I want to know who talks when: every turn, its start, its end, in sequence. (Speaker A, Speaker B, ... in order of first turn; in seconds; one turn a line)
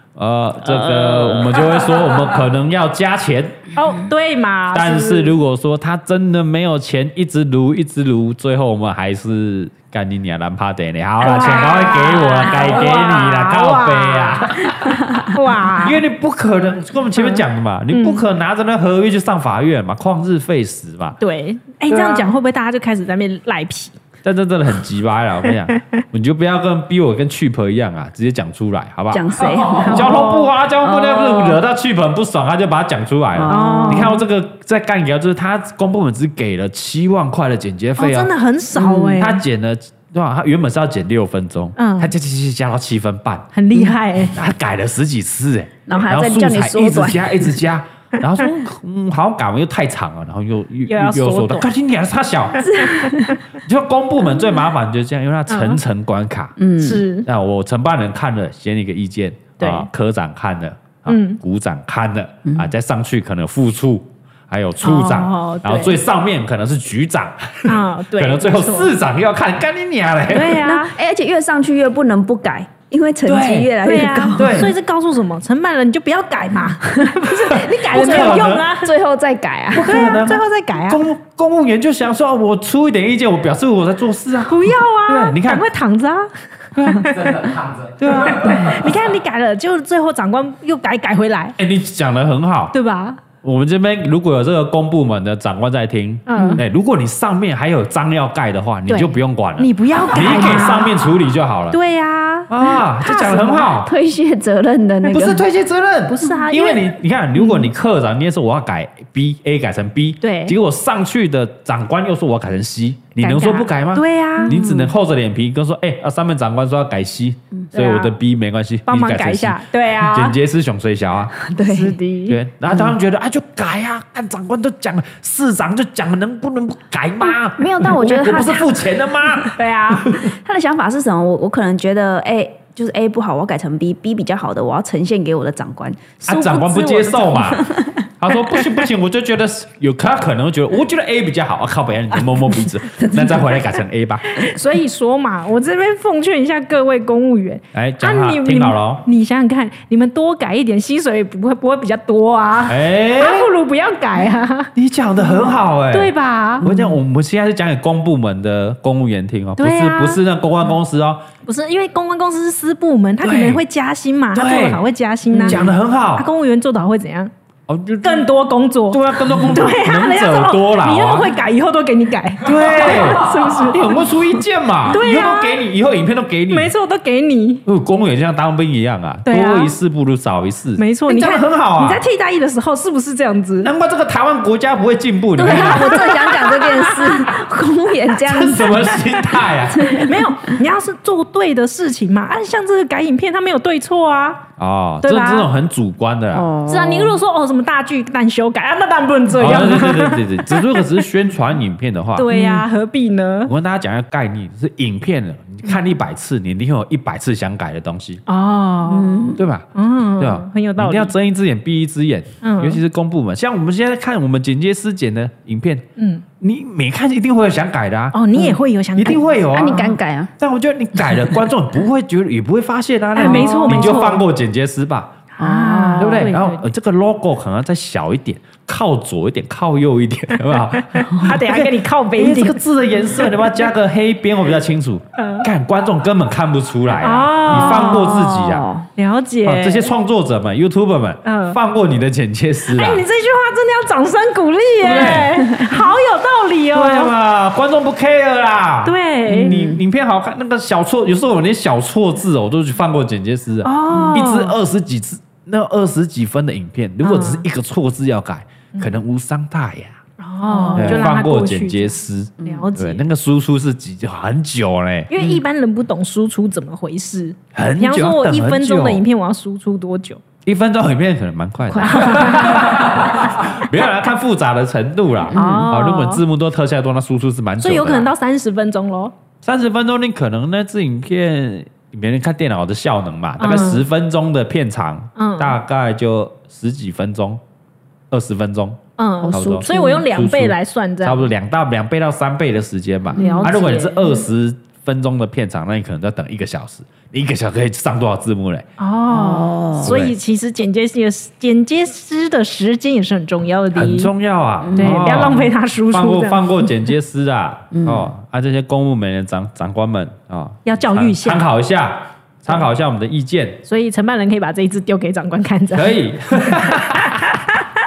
Speaker A: 0.2-3.6
Speaker B: 0.7-1.6
Speaker B: 3.7-5.3
Speaker A: 4.7-21.2
Speaker B: 11.2-16.0
Speaker B: 17.9-18.2
Speaker B: 21.2-24.0
Speaker A: 21.9-22.2
Speaker A: 24.2-38.3
Speaker C: 29.1-30.3
Speaker B: 29.4-31.6
Speaker C: 33.4-34.2
Speaker B: 33.5-34.2
Speaker B: 38.0-39.4
Speaker C: 38.8-39.2
Speaker A: 39.2-43.5
Speaker B: 41.8-42.1
Speaker B: 43.5-44.4
Speaker A: 44.3-52.7
Speaker C: 45.9-47.5
Speaker B: 50.9-51.7
Speaker B: 52.6-53.4
Speaker C: 52.6-53.4
Speaker A: 53.6-56.5
Speaker B: 55.5-55.8
Speaker C: 56.6-57.0
Speaker B: 56.8-57.3
Speaker A: 57.2-70.7
Speaker B: 59.6-59.9
Speaker B: 61.1-61.4
Speaker B: 64.8-66.0
Speaker B: 67.7-68.9
Speaker B: 70.3-71.0
Speaker C: 70.6-74.6
Speaker A: 73.3-73.7
Speaker B: 73.8-78.9
Speaker A: 74.3-74.8
Speaker A: 77.3-78.7
Speaker C: 77.9-80.1
Speaker A: 79.7-85.7
Speaker B: 79.8-81.0
Speaker B: 84.5-87.4
Speaker A: 86.8-88.9
Speaker B: 88.0-91.6
Speaker A: 91.6-92.7
Speaker B: 92.7-93.2
Speaker A: 93.4-101.8
Speaker B: 96.3-96.6
Speaker C: 96.3-96.6
Speaker B: 98.9-101.1
Speaker B: 101.7-103.7
Speaker A: 102.5-103.9
Speaker C: 103.2-105.4
Speaker A: 105.0-121.5
Speaker B: 106.1-106.9
Speaker C: 107.4-107.7
Speaker B: 110.2-110.6
Speaker B: 113.2-114.6
Speaker C: 114.4-114.9
Speaker B: 117.7-118.2
Speaker B: 118.9-120.4
Speaker C: 121.4-122.0
Speaker B: 121.6-122.4
Speaker A: 122.3-130.3
Speaker C: 127.6-128.8
Speaker B: 129.6-130.1
Speaker C: 130.2-136.4
Speaker B: 136.2-137.6
Speaker A: 136.3-137.7
Speaker C: 137.3-138.0
Speaker A: 138.2-144.4
Speaker C: 143.0-143.3
Speaker B: 144.4-154.7
Speaker A: 147.7-149.1
Speaker A: 152.7-153.5
Speaker A: 154.8-161.2
Speaker B: 155.9-156.7
Speaker C: 156.6-156.9
Speaker B: 159.6-160.2
Speaker B: 161.5-167.3
Speaker A: 163.2-163.6
Speaker A: 164.3-164.8
Speaker C: 165.3-165.7
Speaker A: 165.4-166.3
Speaker A: 167.7-168.3
Speaker B: 168.0-174.1
Speaker A: 168.9-171.3
Speaker A: 172.4-176.7
Speaker B: 174.9-175.6
Speaker B: 176.5-177.7
Speaker A: 177.7-182.0
Speaker B: 179.3-179.7
Speaker B: 180.8-183.7
Speaker A: 183.6-186.2
Speaker C: 185.4-190.6
Speaker B: 185.4-187.3
Speaker A: 188.2-190.1
Speaker B: 189.9-194.5
Speaker A: 194.6-196.5
Speaker B: 195.0-195.5
Speaker C: 196.3-197.2
Speaker B: 196.7-201.1
Speaker A: 199.3-202.3
Speaker B: 202.2-203.5
Speaker C: 202.3-202.6
Speaker A: 203.5-208.2
Speaker B: 208.3-211.1
Speaker C: 208.9-209.4
Speaker A: 209.4-209.7
Speaker A: 210.2-215.8
Speaker B: 212.4-212.8
Speaker B: 216.0-216.2
Speaker A: 216.4-218.2
Speaker B: 218.1-220.0
Speaker A: 219.0-219.8
Speaker C: 219.5-220.3
Speaker A: 220.4-225.1
Speaker B: 223.2-224.3
Speaker C: 223.2-224.0
Speaker B: 225.3-226.7
Speaker C: 225.4-226.3
Speaker A: 226.0-238.7
Speaker B: 230.8-232.6
Speaker B: 235.2-235.4
Speaker B: 237.0-238.2
Speaker C: 237.5-238.9
Speaker B: 239.0-239.9
Speaker A: 239.4-243.1
Speaker B: 241.2-241.6
Speaker B: 242.7-247.1
Speaker A: 244.8-245.4
Speaker C: 244.9-245.8
Speaker A: 246.7-260.0
Speaker B: 248.8-249.6
Speaker C: 249.3-249.8
Speaker B: 253.6-254.6
Speaker B: 257.0-257.4
Speaker B: 260.2-263.0
Speaker C: 260.5-261.0
Speaker A: 260.8-265.1
Speaker C: 262.4-262.7
Speaker B: 265.1-270.2
Speaker A: 267.5-269.0
Speaker A: 270.4-278.1
Speaker C: 271.7-272.7
Speaker B: 271.8-272.9
Speaker C: 275.3-275.7
Speaker B: 275.3-276.2
Speaker B: 277.6-279.1
Speaker A: 279.4-287.4
Speaker B: 283.4-283.8
Speaker B: 285.2-285.6
Speaker A: 288.1-298.7
Speaker B: 289.0-291.3
Speaker C: 289.2-290.0
Speaker C: 293.1-293.6
Speaker B: 293.2-294.2
Speaker B: 298.8-304.1
Speaker C: 299.1-299.9
Speaker A: 299.8-300.1
Speaker A: 303.7-313.6
Speaker C: 304.6-305.3
Speaker B: 304.8-306.4
Speaker C: 307.7-308.1
Speaker B: 310.7-311.4
Speaker B: 313.6-317.7
Speaker A: 315.7-317.4